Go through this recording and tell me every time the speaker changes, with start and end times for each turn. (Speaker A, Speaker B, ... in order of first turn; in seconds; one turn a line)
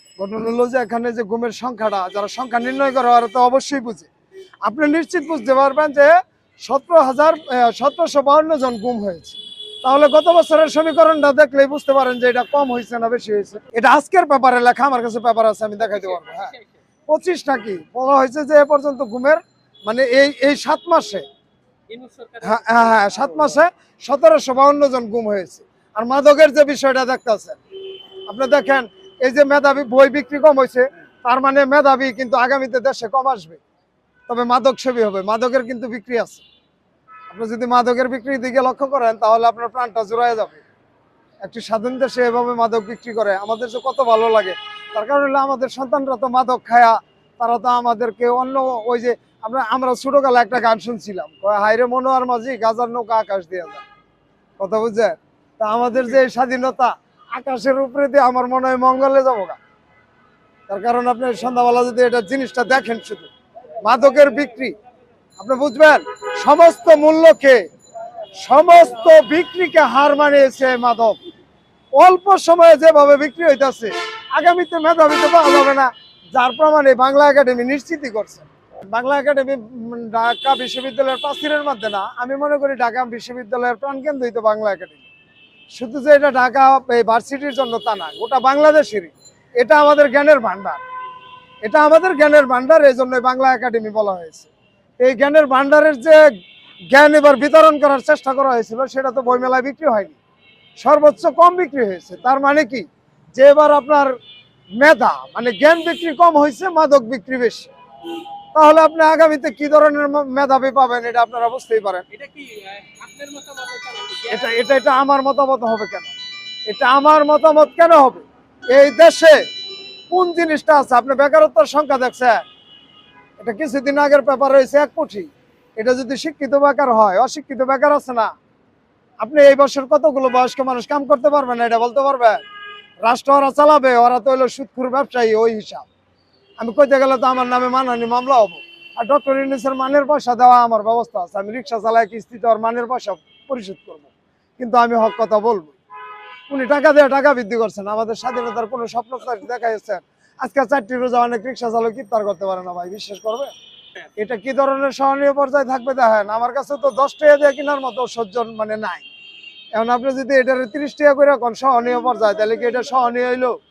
Speaker A: 0.2-4.1
Speaker A: 4.6-6.1
Speaker A: 6.6-16.5
Speaker B: 15.8-16.8
Speaker A: 17.1-21.2
Speaker B: 21.9-23.2
Speaker A: 22.4-27.6
Speaker A: 28.3-33.6
Speaker A: 34.3-36.4
Speaker A: 37.3-40.6
Speaker A: 41.4-53.8
Speaker A: 54.6-59.6
Speaker A: 60.7-63.3
Speaker A: 63.8-64.7
Speaker A: 65.4-67.6
Speaker A: 68.3-71.2
Speaker A: 71.9-85.0
Speaker A: 85.7-90.8
Speaker A: 91.6-96.2
Speaker A: 96.9-100.2
Speaker A: 100.8-104.1
Speaker A: 104.8-107.7
Speaker A: 108.5-112.0
Speaker B: 112.1-114.5
Speaker A: 114.3-116.1
Speaker A: 116.7-119.4
Speaker A: 120.1-122.4
Speaker A: 123.4-128.3
Speaker A: 129.2-132.4
Speaker A: 133.0-135.8
Speaker A: 136.6-145.8
Speaker A: 146.5-153.5
Speaker A: 154.2-159.1
Speaker A: 159.7-163.6